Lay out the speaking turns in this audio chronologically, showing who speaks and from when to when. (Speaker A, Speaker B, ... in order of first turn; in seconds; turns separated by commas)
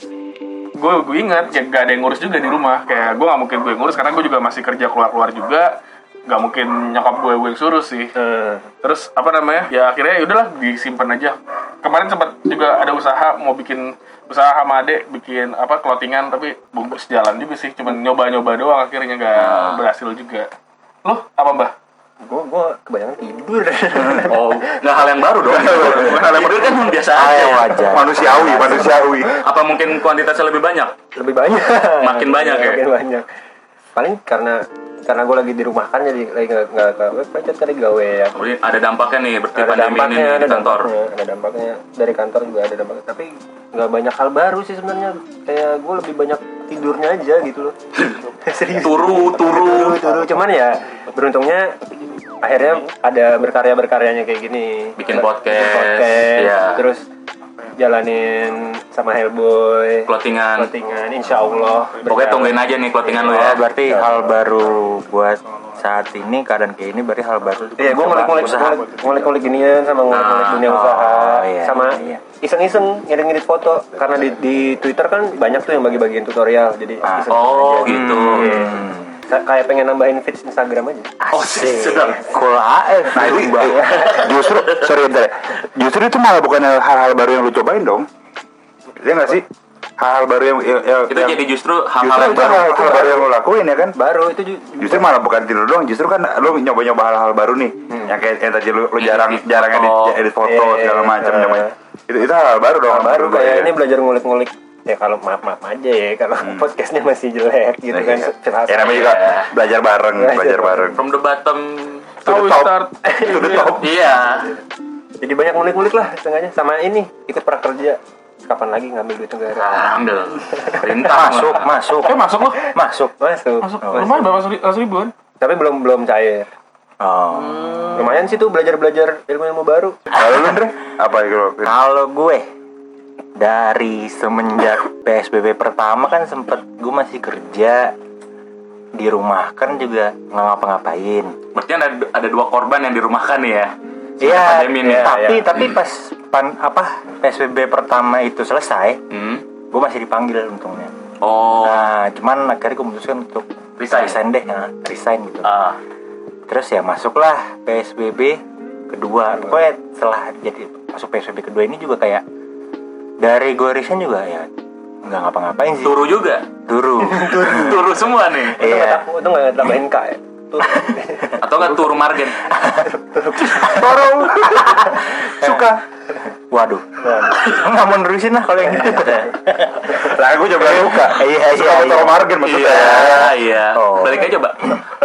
Speaker A: 0.8-8.1, Speaker B: 8.2-8.7, Speaker A: 8.8-20.5, Speaker C: 19.3-19.8, Speaker A: 21.0-21.7, Speaker B: 22.2-24.6, Speaker C: 24.2-27.9, Speaker D: 25.4-26.7, Speaker A: 25.6-26.2, Speaker E: 27.1-29.3, Speaker D: 27.9-29.4, Speaker B: 28.7-29.1, Speaker C: 29.4-30.9, Speaker B: 31.1-33.3, Speaker C: 32.0-32.8, Speaker B: 33.9-38.4, Speaker C: 38.3-40.9, Speaker B: 39.5-47.8, Speaker B: 48.4-51.8, Speaker C: 48.8-50.0, Speaker B: 52.4-57.0, Speaker C: 55.0-56.8, Speaker B: 57.8-62.6, Speaker C: 60.1-60.7, Speaker C: 62.1-63.6, Speaker E: 63.2-68.8, Speaker B: 63.4-64.3, Speaker B: 67.8-81.1, Speaker C: 70.1-70.7, Speaker E: 70.6-72.2, Speaker E: 77.0-77.3, Speaker C: 77.3-78.6, Speaker E: 77.8-79.2, Speaker E: 81.2-83.9, Speaker C: 81.3-82.2, Speaker D: 83.1-88.1, Speaker C: 83.2-84.8, Speaker B: 83.7-84.2, Speaker D: 89.0-89.5, Speaker D: 90.0-91.4, Speaker C: 91.1-93.0, Speaker D: 92.0-93.9, Speaker B: 92.7-93.3, Speaker B: 94.0-95.1, Speaker D: 94.8-103.8, Speaker C: 99.0-100.2, Speaker B: 100.4-101.7, Speaker B: 102.9-109.0, Speaker D: 106.4-106.7, Speaker D: 107.9-111.0, Speaker C: 108.8-109.5, Speaker B: 110.1-111.0, Speaker C: 111.0-112.2, Speaker A: 112.2-113.8, Speaker D: 112.2-113.9, Speaker B: 113.0-113.7, Speaker C: 113.8-114.5, Speaker B: 115.2-119.8, Speaker C: 119.5-121.7, Speaker B: 120.5-120.8, Speaker E: 121.1-123.1, Speaker A: 122.0-122.6, Speaker B: 123.2-124.3, Speaker A: 123.6-125.1, Speaker B: 125.4-126.5, Speaker E: 127.0-128.1, Speaker A: 127.5-128.0, Speaker B: 127.9-130.0, Speaker D: 130.1-131.7, Speaker E: 130.1-130.5, Speaker E: 131.6-132.4, Speaker E: 133.4-137.9, Speaker E: 138.9-141.3, Speaker C: 141.5-145.7, Speaker E: 144.2-149.0, Speaker B: 144.9-145.5, Speaker C: 149.1-149.4, Speaker E: 149.7-150.9, Speaker C: 151.2-151.9, Speaker E: 151.6-155.6, Speaker C: 153.8-154.2, Speaker C: 155.4-155.8, Speaker E: 156.5-158.4, Speaker E: 158.9-162.2, Speaker B: 159.3-159.6, Speaker E: 163.2-164.5, Speaker E: 165.0-166.0, Speaker C: 165.8-166.4, Speaker E: 166.7-167.9, Speaker B: 167.0-171.9, Speaker C: 167.4-168.6, Speaker E: 168.6-169.0, Speaker C: 171.4-172.4, Speaker E: 172.5-172.9, Speaker B: 172.8-173.9, Speaker D: 173.5-175.8, Speaker E: 173.5-174.0, Speaker E: 174.5-175.7, Speaker E: 176.5-184.8, Speaker B: 177.0-177.5, Speaker B: 178.8-179.2, Speaker D: 179.9-183.3, Speaker C: 182.4-184.8